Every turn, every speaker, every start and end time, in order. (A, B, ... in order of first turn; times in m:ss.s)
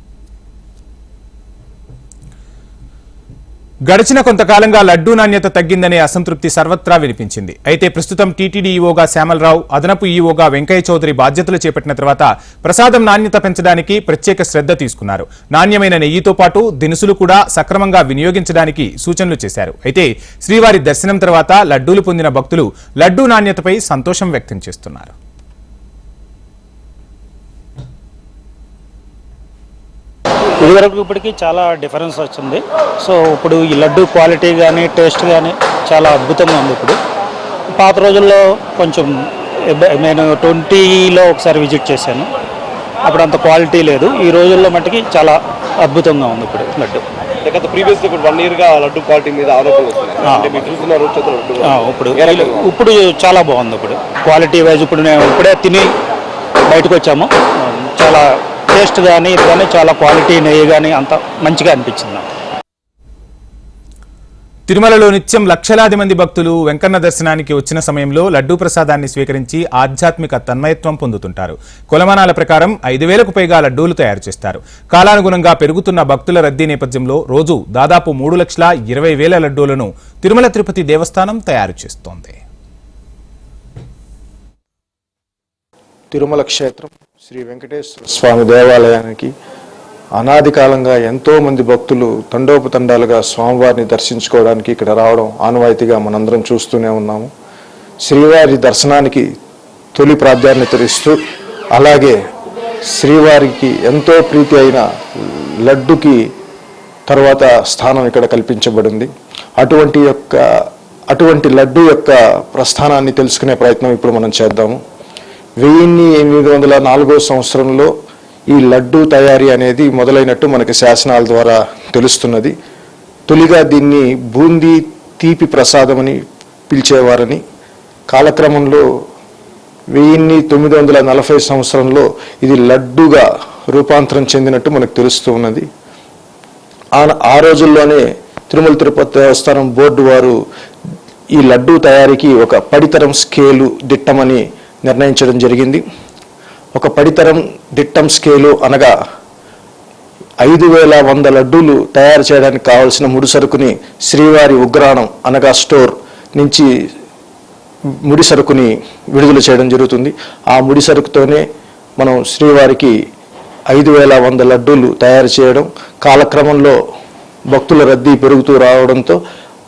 0:03.9-0:25.1 A
0:30.6-0:37.0 B
0:37.7-0:42.3 B
0:43.0-0:47.0 B
0:47.4-0:50.2 C
0:50.2-0:50.8 B
0:50.8-0:51.6 C
0:51.6-0:55.9 B
0:56.7-1:02.3 B
1:04.7-1:22.4 A
1:26.1-1:29.3 D
1:30.2-1:37.3 D
1:38.0-1:39.3 D
1:40.0-1:41.2 D
1:41.8-1:42.2 D
1:43.0-1:46.2 D
1:47.1-1:50.4 D
1:51.1-1:54.8 D
1:55.6-1:57.9 D
1:58.5-2:02.5 D
2:03.3-2:06.2 D
2:06.7-2:07.4 D
2:08.1-2:08.8 D
2:09.9-2:15.6 D
2:17.0-2:20.4 D
2:21.4-2:25.8 D
2:26.8-2:28.9 D
2:30.4-2:36.7 D
2:38.1-2:41.4 D
2:42.0-2:42.9 D
2:43.7-2:46.8 D
2:47.5-2:49.2 D